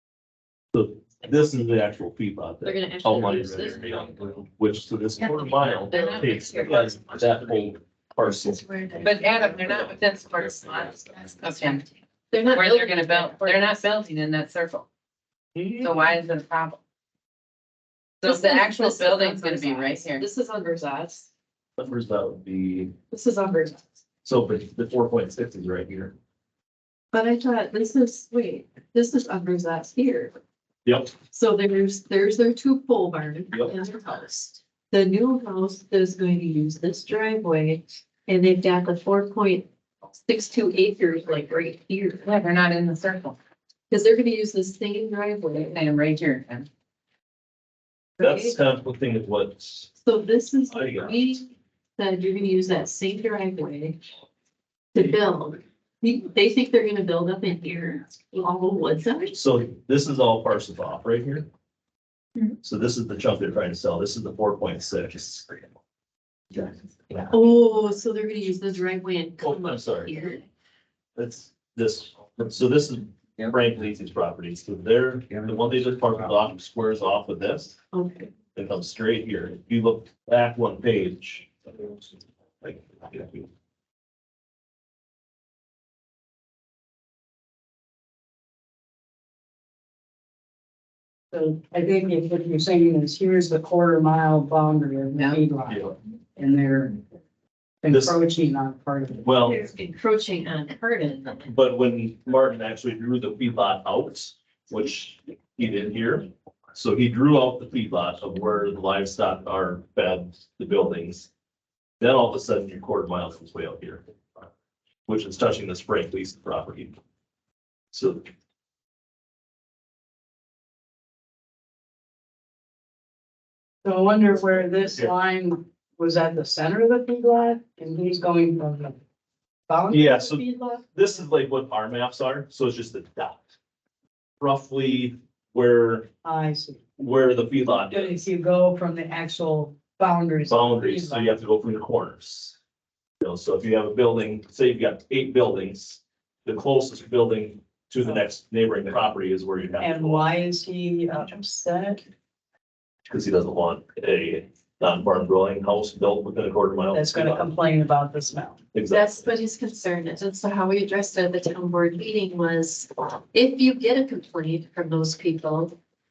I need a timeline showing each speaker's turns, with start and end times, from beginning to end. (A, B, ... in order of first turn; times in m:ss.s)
0:00.7-0:08.6 A
0:02.6-0:04.4 B
0:05.2-0:09.9 B
0:05.8-0:06.9 C
0:09.0-0:11.9 C
0:11.0-0:13.8 B
0:12.4-0:14.8 C
0:15.5-0:16.0 A
0:15.8-0:16.8 C
0:18.2-0:20.2 C
0:18.2-0:21.3 B
0:21.8-0:22.9 A
0:23.1-0:23.8 B
0:24.2-0:26.1 A
0:27.1-0:30.4 B
0:30.8-0:31.1 A
0:31.3-0:39.7 B
0:40.2-0:42.3 B
0:42.2-0:43.4 C
0:43.9-0:45.8 B
0:45.6-0:46.7 C
0:48.2-0:48.6 B
0:48.2-0:49.9 A
0:50.0-0:54.0 B
0:50.7-0:51.2 A
0:54.9-0:59.4 B
0:59.3-1:01.5 A
1:02.6-1:05.6 A
1:06.5-1:07.3 A
1:07.3-1:10.4 B
1:09.4-1:10.1 A
1:11.2-1:17.8 A
1:17.9-1:18.4 B
1:18.5-1:22.0 A
1:22.6-1:23.5 A
1:31.3-1:37.0 D
1:35.1-1:35.4 C
1:35.7-1:35.9 A
1:37.8-1:39.2 D
1:37.9-1:38.2 A
1:39.2-1:39.7 A
1:39.4-1:41.5 B
1:41.4-1:51.3 A
1:52.0-1:54.0 A
1:55.1-1:57.0 A
1:57.9-1:58.3 A
2:03.8-2:09.0 D
2:09.7-2:10.6 D
2:09.9-2:13.5 A
2:14.4-2:16.1 A
2:16.2-2:16.8 D
2:17.0-2:18.2 A
2:17.9-2:21.4 D
2:20.5-2:22.6 A
2:23.2-2:30.3 A
2:29.8-2:32.0 D
2:33.1-2:37.5 A
2:36.9-2:38.6 D
2:38.7-2:39.2 A
2:38.9-2:45.7 B